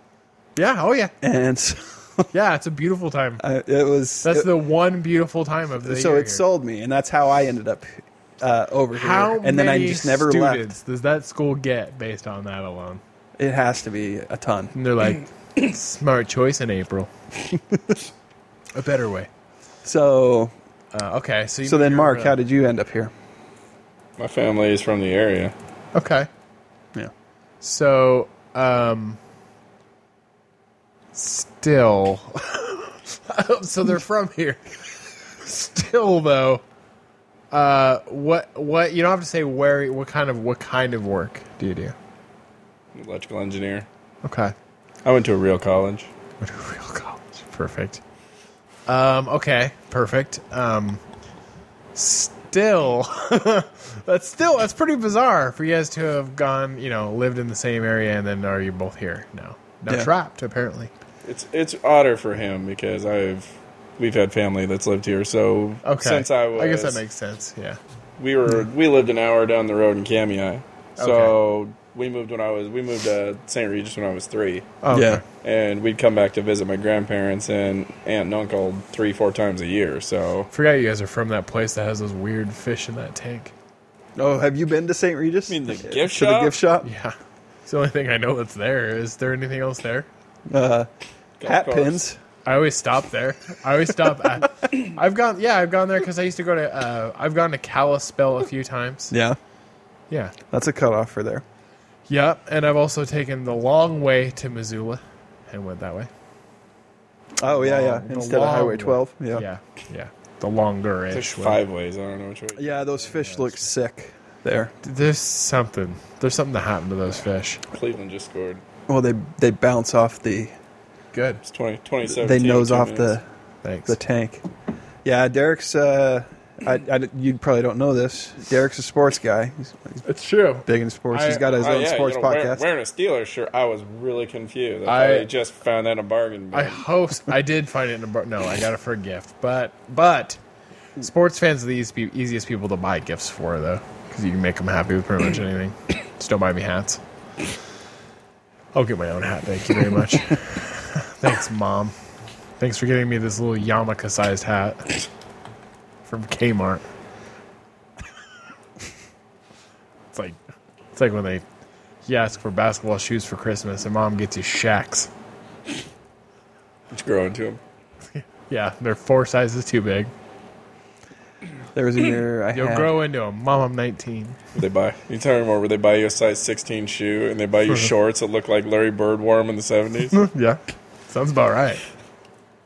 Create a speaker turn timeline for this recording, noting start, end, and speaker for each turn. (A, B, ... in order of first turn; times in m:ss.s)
0:00.6-0:01.1 A
0:01.2-0:02.3 B
0:02.3-0:03.4 A
0:03.4-0:04.6 B
0:04.2-0:06.4 A
0:05.8-0:10.7 B
0:08.9-0:13.0 A
0:13.4-0:14.7 B
0:14.8-0:17.1 A
0:17.7-0:18.0 B
0:18.8-0:19.3 A
0:19.8-0:20.5 B
0:20.9-0:22.4 A
0:21.6-0:23.1 B
0:24.2-0:25.5 C
0:26.0-0:26.3 A
0:27.6-0:29.2 A
0:31.1-0:36.6 A
0:37.5-0:42.0 A
0:43.0-0:43.9 C
0:44.2-0:44.5 A
0:45.0-0:46.1 C
0:46.4-0:48.0 A
0:48.9-0:51.0 A
0:52.0-1:00.9 A
1:01.2-1:07.0 C
1:05.8-1:07.8 A
1:08.2-1:14.7 C
1:11.0-1:11.4 A
1:14.8-1:15.2 A
1:14.9-1:15.2 B
1:15.4-1:20.5 C
1:20.5-1:23.5 A
1:24.2-1:26.9 B
1:25.5-1:26.6 C
1:26.8-1:30.1 A
1:30.5-1:30.9 B
1:31.4-1:32.0 C
1:31.4-1:32.2 B
1:32.4-1:39.1 A
1:39.1-1:39.4 B
1:40.5-1:41.4 B
1:42.1-1:46.1 A
1:47.4-1:49.5 B
1:47.5-1:51.6 A
1:51.1-1:52.9 C
1:52.6-1:54.7 B
1:53.2-1:53.7 A
1:54.8-1:57.6 A
1:57.7-1:58.6 C
1:58.9-2:00.5 B
2:01.1-2:01.4 A
2:01.4-2:03.2 C
2:02.1-2:03.3 B
2:03.6-2:04.0 A
2:03.9-2:04.4 B
2:05.0-2:10.0 B
2:10.0-2:11.6 A
2:10.7-2:12.6 B
2:11.6-2:16.8 C
2:14.9-2:15.3 A
2:16.5-2:20.4 A
2:21.0-2:27.0 A
2:28.7-2:31.9 A
2:32.6-2:34.9 A
2:36.1-2:36.8 A
2:40.1-2:40.4 A
2:40.9-2:41.4 A
2:42.0-2:45.1 A
2:46.9-2:47.6 C
2:48.2-2:50.1 A
2:51.7-2:52.9 B
2:52.5-2:54.4 A
2:54.6-3:00.2 C
3:00.1-3:01.8 A